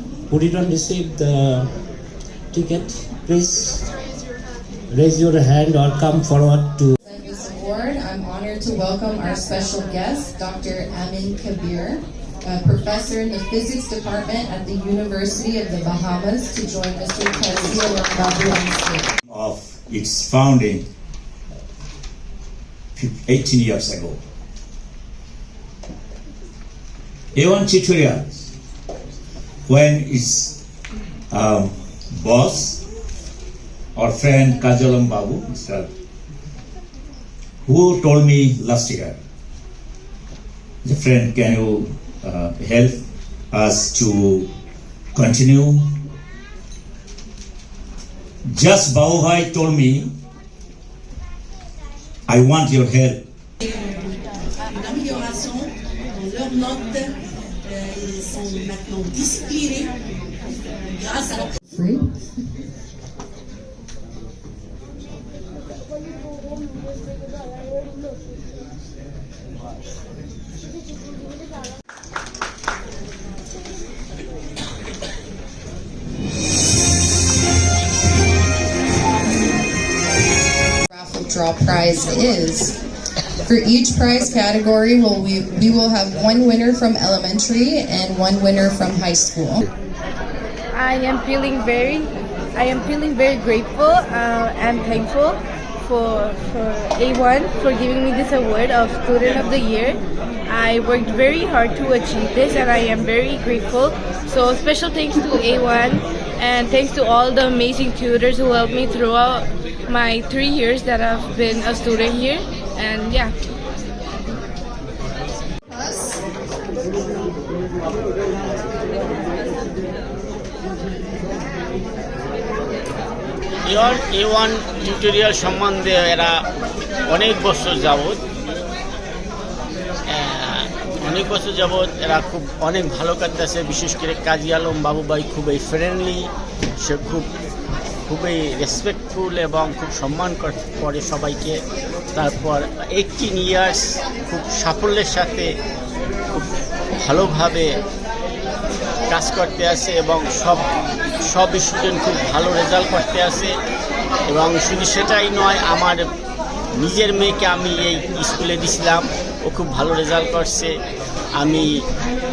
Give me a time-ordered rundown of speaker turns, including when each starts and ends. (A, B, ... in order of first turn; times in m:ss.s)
0:00.3-0:01.7 A
0:02.5-0:03.8 A
0:04.9-0:06.9 A
0:07.0-0:19.1 B
0:19.3-0:20.8 C
0:23.0-0:24.2 C
0:27.3-0:28.5 C
0:29.7-0:30.6 C
0:31.3-0:32.8 C
0:34.0-0:35.9 C
0:37.6-0:39.2 C
0:40.8-0:43.0 C
0:43.5-0:44.5 C
0:45.1-0:45.8 C
0:48.5-0:50.1 C
0:52.3-0:53.2 C
0:54.8-0:57.1 D
0:57.7-0:59.9 D
1:01.0-1:01.4 D
1:01.7-1:02.1 B
1:20.9-1:22.7 B
1:23.4-1:29.6 B
1:30.7-1:53.3 E
2:03.7-2:06.3 F
2:07.1-2:08.2 F
2:10.1-2:16.3 F
2:16.8-2:17.3 F
2:18.1-2:21.6 F
2:22.1-2:25.5 F
2:27.0-2:27.7 F
2:29.1-2:30.6 F
2:31.2-2:33.5 F
2:34.3-2:36.0 F
2:36.8-2:40.7 F
2:41.4-2:41.7 F